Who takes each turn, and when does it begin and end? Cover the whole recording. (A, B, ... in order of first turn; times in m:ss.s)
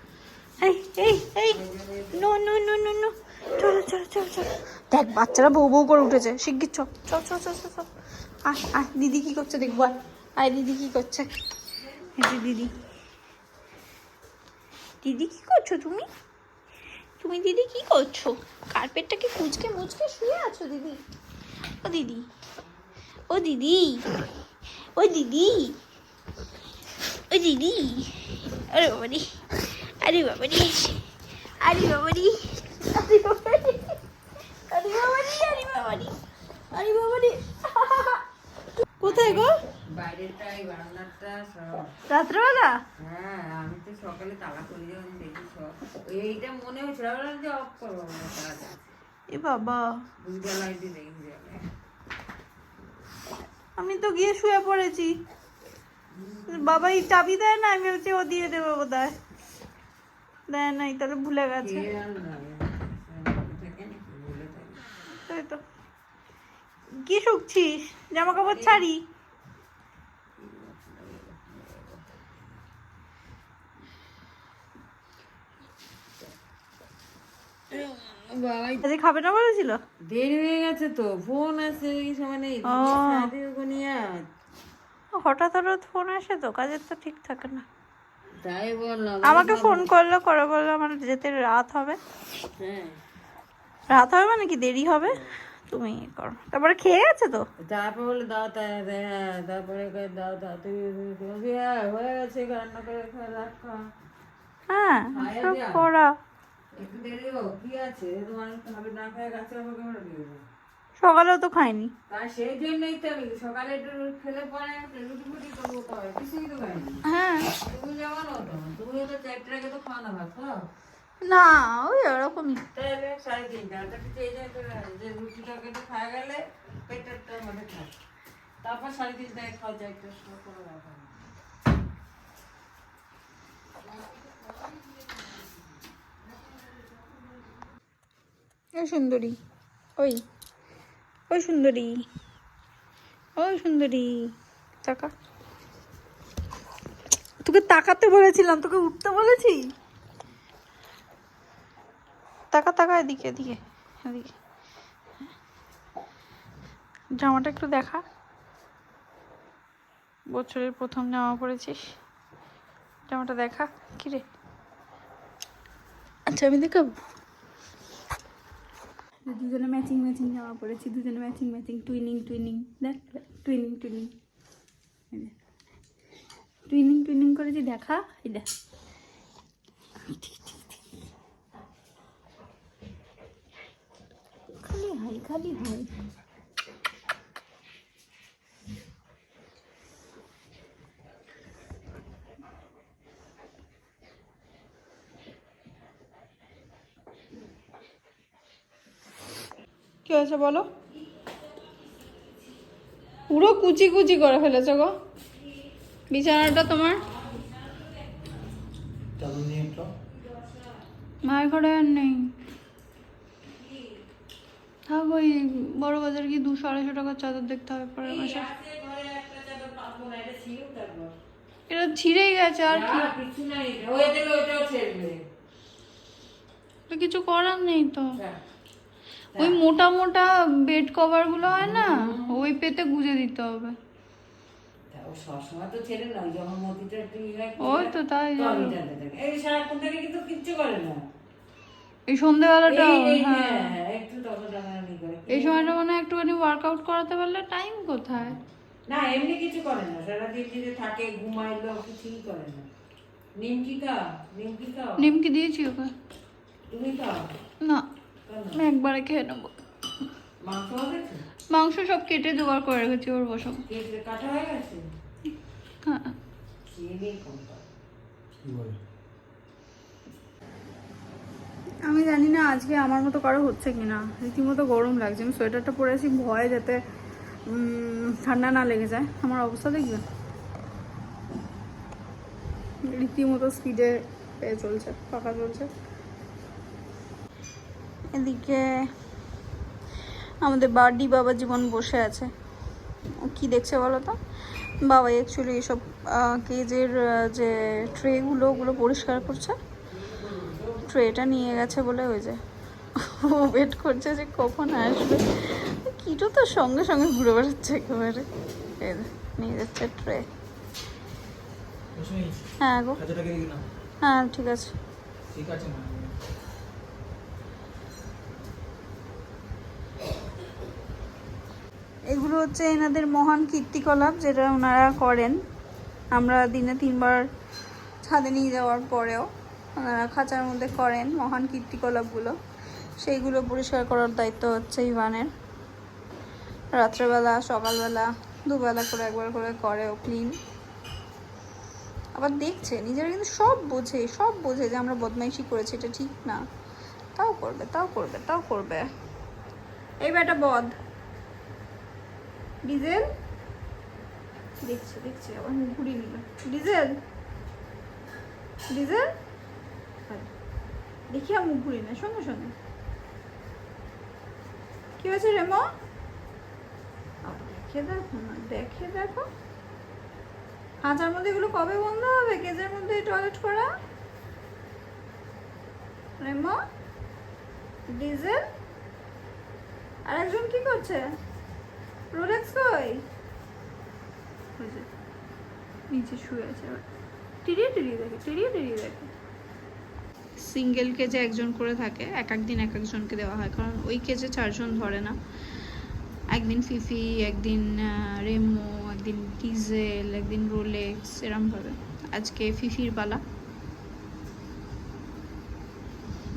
0:00.6-0:01.6 A
0:01.5-0:02.2 B
0:02.1-0:07.9 A
0:08.4-0:11.3 A
0:12.2-0:12.7 A
0:15.0-0:16.1 A
0:17.2-0:21.0 A
0:21.8-0:22.3 A
0:23.3-0:24.1 A
0:25.0-0:25.8 A
0:27.3-0:31.0 A
0:31.6-0:34.0 A
0:34.7-0:36.2 A
0:36.7-0:38.2 A
0:39.0-0:39.5 A
0:39.0-0:41.9 B
0:42.1-0:42.8 A
0:43.0-0:48.9 B
0:49.3-0:49.9 A
0:50.2-0:51.7 B
0:53.8-0:55.1 A
0:56.1-0:56.8 B
0:56.5-0:59.2 A
1:00.5-1:01.9 A
1:01.6-1:04.9 B
1:05.1-1:05.6 A
1:07.0-1:09.0 A
1:08.3-1:08.8 B
1:10.4-1:12.2 B
1:17.7-1:18.8 B
1:18.8-1:19.8 A
1:20.1-1:24.2 B
1:22.6-1:23.3 A
1:25.2-1:27.6 A
1:28.4-1:29.9 B
1:29.2-1:32.0 A
1:32.6-1:33.0 B
1:33.9-1:37.4 A
1:37.6-1:43.8 B
1:44.7-1:46.1 A
1:45.1-1:45.8 B
1:46.8-1:50.4 B
1:51.0-1:51.9 A
1:52.1-1:57.0 B
1:57.1-1:57.5 A
1:57.6-2:00.7 B
2:01.2-2:02.6 A
2:02.7-2:07.9 B
2:08.6-2:11.1 B
2:18.8-2:19.4 A
2:21.3-2:22.0 A
2:23.4-2:24.3 A
2:24.8-2:25.1 A
2:27.4-2:29.7 A
2:32.5-2:34.3 A
2:37.2-2:38.0 A
2:40.3-2:41.9 A
2:43.1-2:44.2 A
2:46.3-2:47.0 A
2:49.3-2:54.1 A
2:56.7-2:58.5 A
3:00.1-3:00.6 A
3:04.6-3:05.9 A
3:20.1-3:20.7 A
3:23.3-3:24.9 A
3:26.1-3:27.0 A
3:26.8-3:28.4 B
3:29.2-3:29.9 C
3:30.1-3:30.8 B
3:31.2-3:32.3 A
3:33.5-3:34.0 B
3:34.9-3:38.5 A
3:38.0-3:41.1 B
3:41.7-3:43.1 A
3:42.7-3:45.2 B
3:46.9-3:48.2 A
3:49.4-3:53.8 A
3:51.5-3:52.4 B
3:54.9-4:01.0 B
3:57.6-3:58.8 A
4:02.1-4:03.7 A
4:02.7-4:05.8 B
4:05.3-4:08.4 A
4:08.9-4:12.7 B
4:13.4-4:15.1 B
4:15.0-4:15.9 A
4:16.7-4:17.3 B
4:18.3-4:18.6 B
4:18.6-4:19.6 A
4:20.4-4:21.2 B
4:21.5-4:23.6 A
4:23.7-4:24.8 B
4:25.8-4:26.1 A
4:26.7-4:27.6 B
4:28.4-4:28.8 C
4:31.9-4:36.8 A
4:37.5-4:40.0 A
4:42.8-4:45.7 A
4:48.1-4:48.6 A
4:50.4-4:52.3 A
4:53.2-4:54.2 A
4:54.8-4:59.6 A
5:00.8-5:02.4 A
5:03.0-5:08.3 A
5:08.8-5:10.3 A
5:12.0-5:12.5 C
5:12.6-5:13.0 A
5:13.0-5:13.7 C
5:14.0-5:14.8 A
5:15.3-5:16.1 C
5:22.1-5:25.4 A
5:26.1-5:27.2 A
5:28.0-5:29.3 A
5:29.8-5:32.4 A
5:33.0-5:35.3 A
5:36.7-5:40.4 A
5:42.2-5:46.4 A
5:47.2-5:48.9 A
5:50.0-5:50.8 A
5:52.7-5:53.1 A
5:54.6-5:57.0 A
5:58.7-5:59.1 A
6:01.1-6:02.5 A
6:05.0-6:05.6 A
6:07.2-6:09.3 A
6:10.8-6:13.7 A
6:16.2-6:16.6 A
6:17.9-6:18.4 A
6:20.0-6:21.0 A
6:22.1-6:23.0 A
6:24.6-6:24.9 A
6:25.9-6:26.8 A
6:27.4-6:29.1 A
6:30.4-6:35.2 A
6:36.3-6:43.2 A